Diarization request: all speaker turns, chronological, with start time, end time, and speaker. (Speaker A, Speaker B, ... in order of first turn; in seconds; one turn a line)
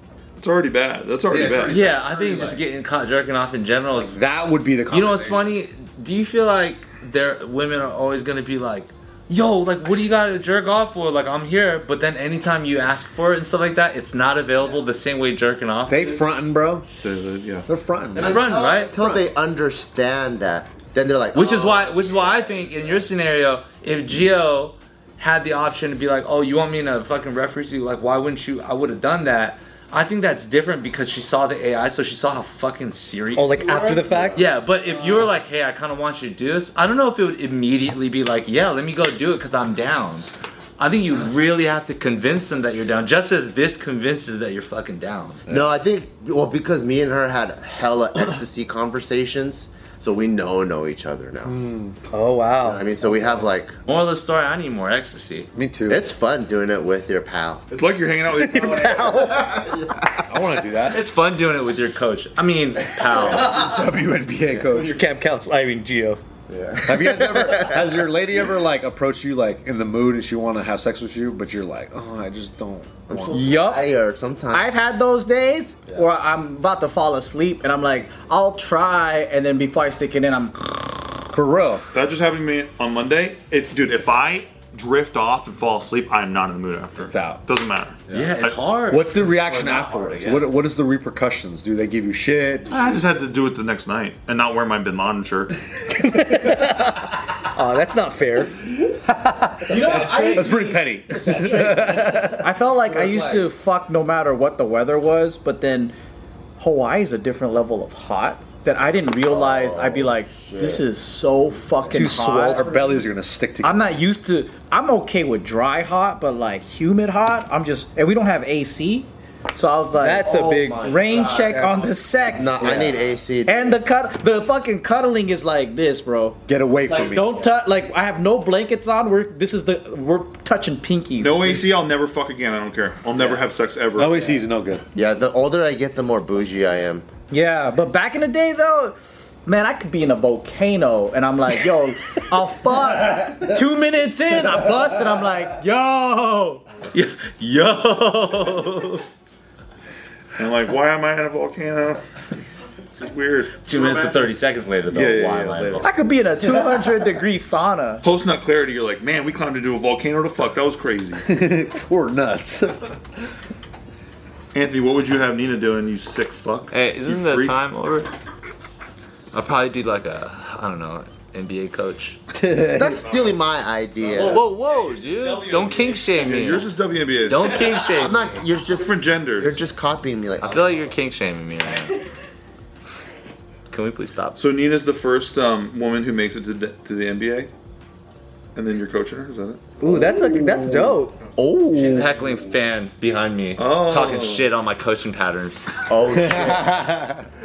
Speaker A: 0.4-1.8
Speaker B: 1.3-2.6
Speaker C: 1.6-4.2
Speaker B: 3.9-5.6
Speaker C: 4.9-16.1
Speaker B: 15.9-16.9
Speaker A: 17.0-17.6
Speaker B: 17.7-18.4
Speaker C: 18.1-18.9
Speaker D: 18.2-21.9
Speaker B: 18.9-19.2
Speaker C: 21.3-33.6
Speaker E: 33.3-34.5
Speaker B: 34.0-34.4
Speaker C: 34.3-45.4
Speaker D: 45.5-51.5
Speaker B: 51.4-52.0
Speaker E: 52.1-52.9
Speaker D: 52.6-53.8
Speaker C: 53.9-55.5
Speaker B: 55.5-56.0
Speaker D: 55.9-57.6
Speaker A: 57.7-59.3
Speaker E: 58.4-59.8
Speaker B: 60.2-61.0
Speaker C: 60.9-63.9
Speaker E: 63.3-63.6
Speaker B: 63.4-65.0
Speaker E: 64.7-66.2
Speaker D: 66.5-68.0
Speaker B: 66.8-73.4
Speaker D: 73.1-74.7
Speaker F: 73.3-73.9
Speaker F: 74.5-81.2
Speaker B: 81.3-81.9
Speaker A: 81.9-88.6
Speaker B: 87.0-87.4
Speaker C: 88.1-90.5
Speaker B: 88.9-92.7
Speaker A: 92.7-95.5
Speaker E: 95.9-98.5
Speaker B: 99.1-103.3
Speaker F: 99.7-105.9
Speaker E: 99.8-100.4
Speaker F: 106.6-113.1
Speaker D: 109.3-110.8
Speaker B: 111.9-113.9
Speaker F: 113.6-131.5
Speaker E: 119.9-121.7
Speaker D: 120.2-123.8
Speaker B: 126.5-127.3
Speaker A: 131.2-134.3
Speaker B: 134.0-134.8
Speaker D: 134.9-137.1
Speaker F: 137.3-146.6
Speaker C: 146.9-149.0
Speaker A: 150.4-152.0
Speaker A: 152.9-154.1
Speaker C: 153.6-155.9
Speaker A: 154.9-155.8
Speaker F: 155.8-158.0
Speaker A: 158.0-161.2
Speaker B: 161.2-162.9
Speaker A: 164.5-167.6
Speaker C: 166.7-168.1
Speaker C: 169.3-172.2
Speaker B: 172.4-173.1
Speaker D: 172.7-174.5
Speaker C: 174.1-176.7
Speaker E: 174.9-176.0
Speaker A: 176.1-177.7
Speaker C: 177.2-178.3
Speaker D: 177.9-180.8
Speaker A: 178.7-179.6
Speaker C: 180.4-182.0
Speaker C: 183.7-184.4
Speaker A: 184.4-187.5
Speaker A: 188.6-189.6
Speaker E: 189.8-191.2
Speaker D: 189.8-192.2
Speaker C: 191.7-195.7
Speaker A: 193.6-194.5
Speaker D: 195.9-196.9
Speaker B: 196.2-197.2